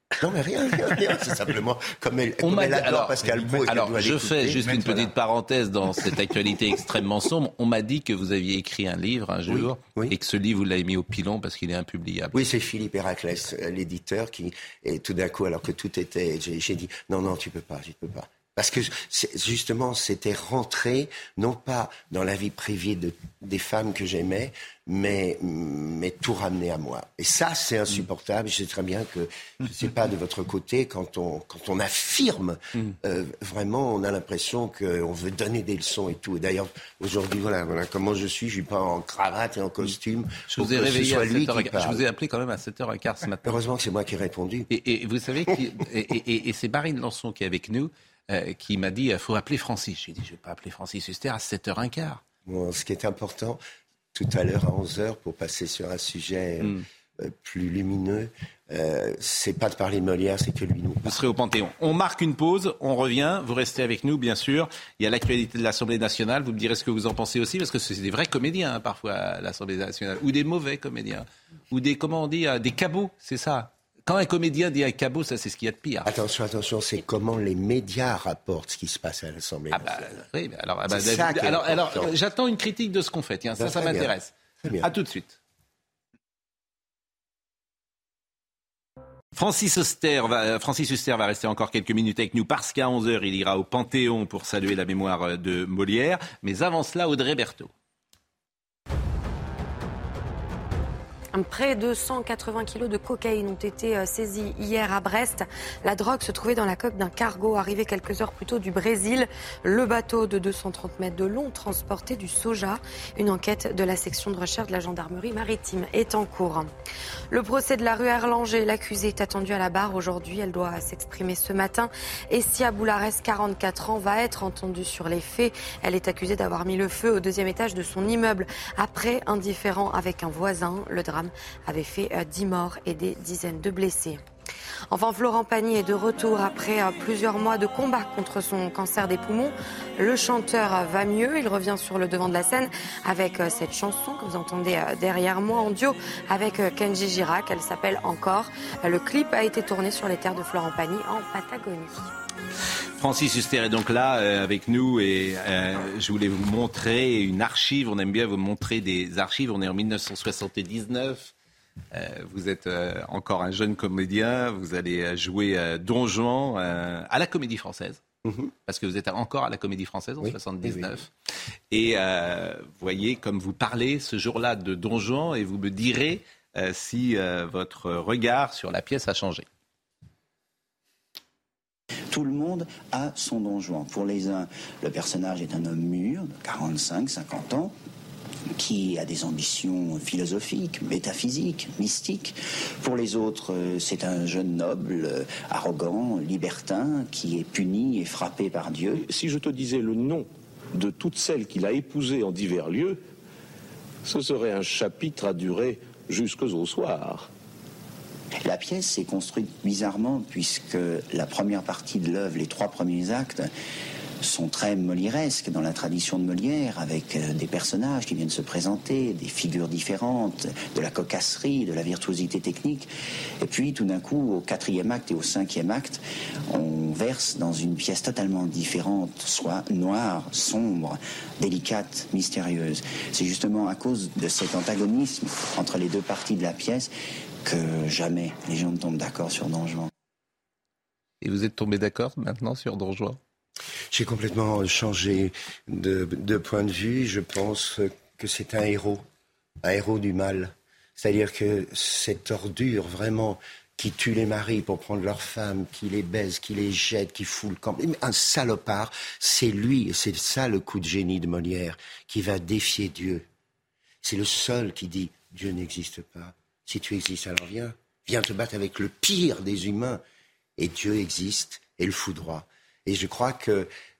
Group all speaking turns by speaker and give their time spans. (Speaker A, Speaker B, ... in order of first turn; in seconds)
Speaker A: 0.2-5.1, 9.5-10.1, 12.3-42.0, 43.4-44.7, 52.5-53.6, 54.1-61.2, 76.0-80.1, 80.9-82.2, 83.6-84.1, 84.6-84.9, 168.2-168.5, 170.2-170.9, 243.9-249.0, 249.6-263.2, 264.0-270.0, 270.6-273.7
Speaker B: 2.4-12.4, 40.5-43.6, 44.7-52.2, 61.0-76.1, 79.8-85.4, 89.3-97.7, 153.0-161.3, 161.9-168.0, 168.7-171.1, 171.7-179.4, 241.2-243.2
Speaker C: 101.3-116.7, 117.3-134.2, 134.9-152.1
Speaker D: 182.1-187.7, 188.6-199.0, 208.4-213.5, 214.2-222.9, 223.4-236.9, 237.4-239.9
Speaker E: 199.0-203.0, 204.0-207.3